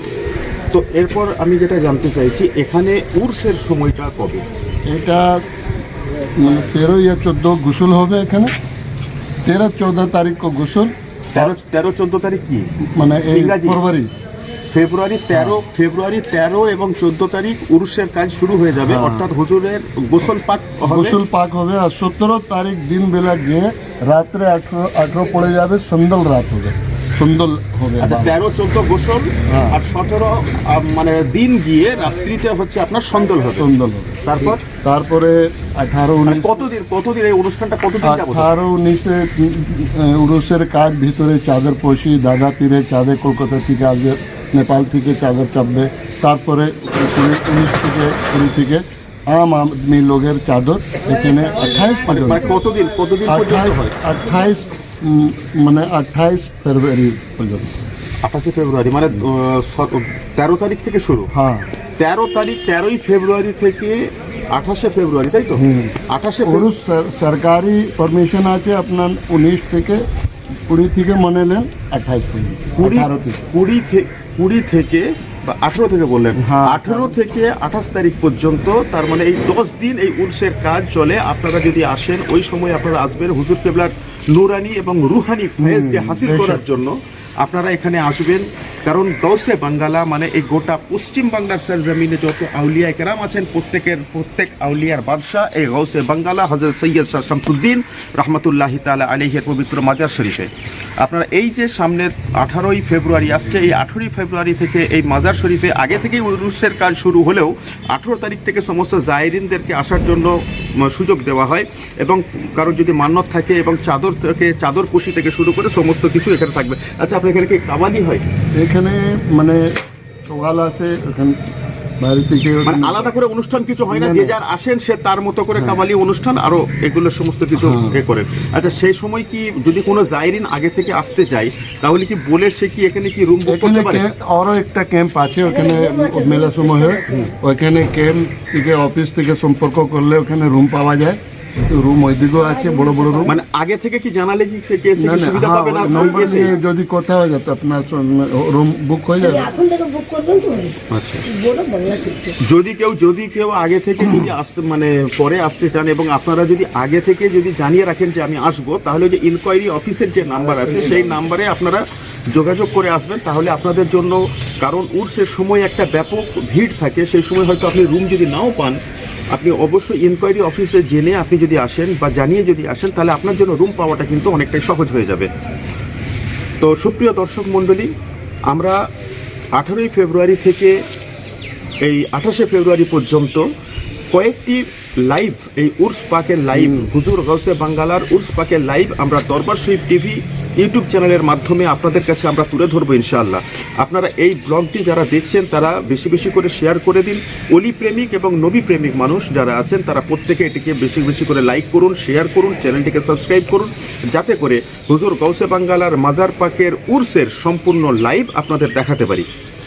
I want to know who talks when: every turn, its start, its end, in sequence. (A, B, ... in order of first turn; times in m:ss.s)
0:00.7-0:04.4 A
0:04.9-0:05.4 B
0:06.4-0:08.5 B
0:09.4-0:11.5 B
0:11.3-0:12.7 A
0:12.8-0:14.1 B
0:13.3-0:13.8 A
0:14.7-0:21.2 A
0:15.3-0:15.6 B
0:18.8-0:19.3 B
0:20.8-0:28.4 B
0:28.0-0:33.6 A
0:29.5-0:29.8 B
0:33.6-0:36.6 B
0:34.2-0:34.6 A
0:36.2-0:38.5 A
0:38.0-0:52.5 B
0:52.0-0:54.0 A
0:53.2-0:57.8 B
0:58.2-1:01.3 A
1:01.3-1:01.7 B
1:02.0-1:06.7 A
1:05.6-1:10.0 B
1:10.6-1:13.4 B
1:12.8-1:40.5 A
1:16.4-1:17.2 B
1:25.6-1:26.6 B
1:41.0-1:50.3 A
1:50.8-1:58.2 A
1:58.5-1:59.7 B
2:00.3-2:03.1 B
2:02.6-2:14.0 A
2:03.9-2:04.4 B
2:05.6-2:05.8 B
2:07.6-2:08.0 B
2:13.4-2:23.4 B
2:15.6-2:17.0 C
2:22.6-2:23.3 C
2:23.3-2:26.6 A
2:25.0-2:29.6 B
2:29.2-2:30.8 C
2:30.9-2:31.3 A
2:31.3-2:32.3 C
2:32.4-2:48.8 A
2:40.4-2:41.2 B
2:49.3-2:55.3 A
2:56.6-2:57.9 A
2:59.6-3:00.7 A
3:01.8-3:03.4 A
3:04.1-3:29.3 A
3:06.5-3:06.9 B